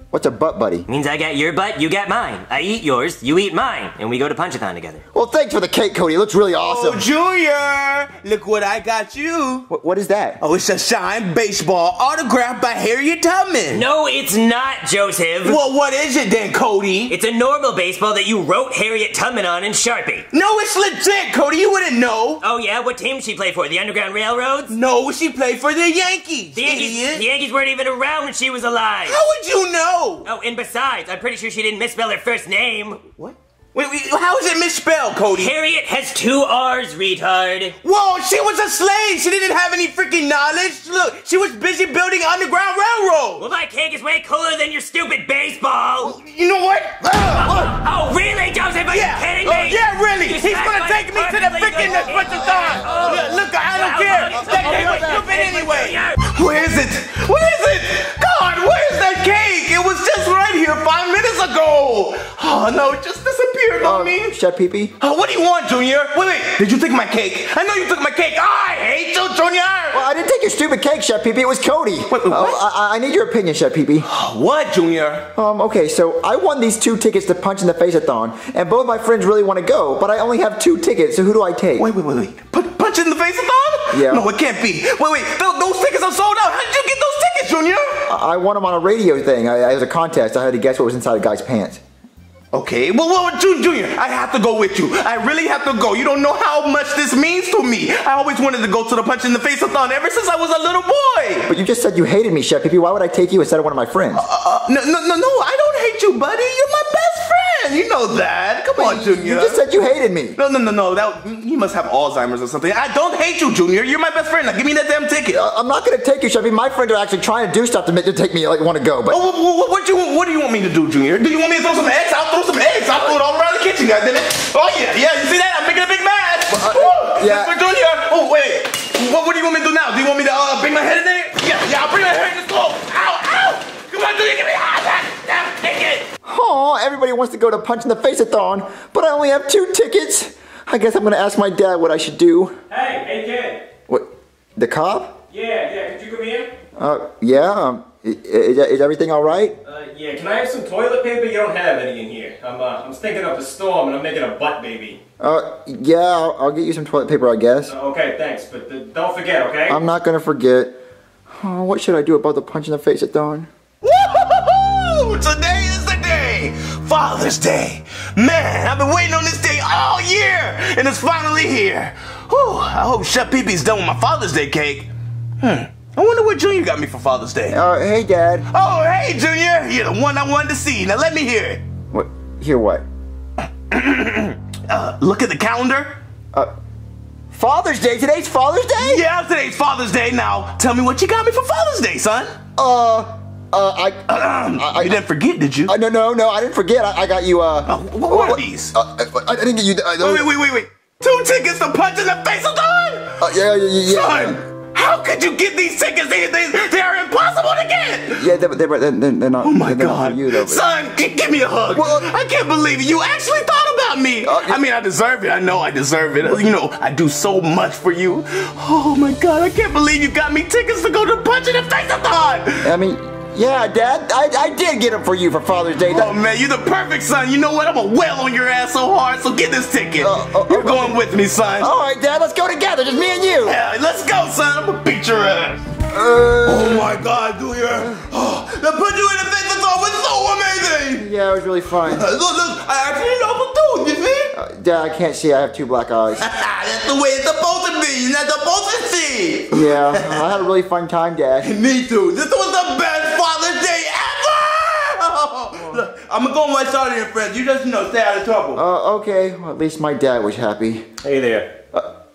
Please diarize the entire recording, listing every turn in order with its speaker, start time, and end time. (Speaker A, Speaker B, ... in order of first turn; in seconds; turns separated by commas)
Speaker A: 0.1-0.9, Speaker B: 0.9-5.0, Speaker A: 5.1-7.0, Speaker C: 6.6-9.7, Speaker A: 9.7-10.4, Speaker C: 10.4-13.8, Speaker B: 13.7-15.6, Speaker C: 15.4-17.1, Speaker B: 17.1-20.2, Speaker C: 20.3-22.4, Speaker B: 22.4-24.7, Speaker C: 24.7-27.2, Speaker B: 26.5-29.2, Speaker C: 29.1-30.3, Speaker B: 30.2-33.0, Speaker C: 33.1-35.5, Speaker B: 35.3-37.8, Speaker C: 37.8-43.4, Speaker B: 43.4-46.2, Speaker C: 46.0-47.6, Speaker B: 47.2-56.2, Speaker A: 47.4-47.7, Speaker C: 48.9-64.3, Speaker A: 52.0-53.3, Speaker A: 54.3-55.3, Speaker A: 63.8-64.9, Speaker C: 65.0-70.0, Speaker A: 69.9-74.0, Speaker C: 72.1-72.6, Speaker C: 74.0-75.3, Speaker A: 75.3-81.8, Speaker C: 81.8-88.0, Speaker A: 83.9-84.3, Speaker A: 88.1-91.8, Speaker C: 92.5-101.5, Speaker A: 101.5-104.2, Speaker C: 104.1-109.6, Speaker A: 108.7-110.4, Speaker C: 110.3-115.4, Speaker A: 115.3-119.2, Speaker C: 119.1-136.1, Speaker A: 126.5-127.6, Speaker A: 136.2-142.6, Speaker D: 142.7-143.6, Speaker A: 143.9-145.2, Speaker D: 145.3-146.4, Speaker A: 146.8-149.6, Speaker D: 149.6-155.0, Speaker A: 155.2-157.7, Speaker D: 157.7-159.8, Speaker A: 159.7-163.5, Speaker C: 163.8-177.6, Speaker A: 177.5-178.5, Speaker C: 178.5-181.6, Speaker A: 181.9-182.8, Speaker C: 183.7-186.0, Speaker A: 187.3-189.0, Speaker C: 188.8-192.4, Speaker A: 192.6-195.0, Speaker C: 194.1-195.7, Speaker A: 195.7-200.3, Speaker C: 197.7-198.7, Speaker C: 200.0-203.3, Speaker A: 203.2-204.4, Speaker C: 203.8-208.3, Speaker A: 208.2-210.6, Speaker C: 209.4-222.7, Speaker A: 211.7-212.1, Speaker A: 214.2-214.6, Speaker A: 222.6-226.2, Speaker C: 225.8-231.7, Speaker A: 230.0-231.0, Speaker A: 231.6-233.6, Speaker C: 233.3-235.7, Speaker A: 235.9-237.0, Speaker C: 236.4-241.1, Speaker A: 237.7-238.1, Speaker A: 241.0-242.1, Speaker C: 241.8-244.3, Speaker A: 244.3-246.2, Speaker C: 246.2-250.3, Speaker A: 249.5-251.5, Speaker C: 251.4-258.6, Speaker A: 255.6-255.8, Speaker A: 258.5-260.9, Speaker D: 261.0-261.5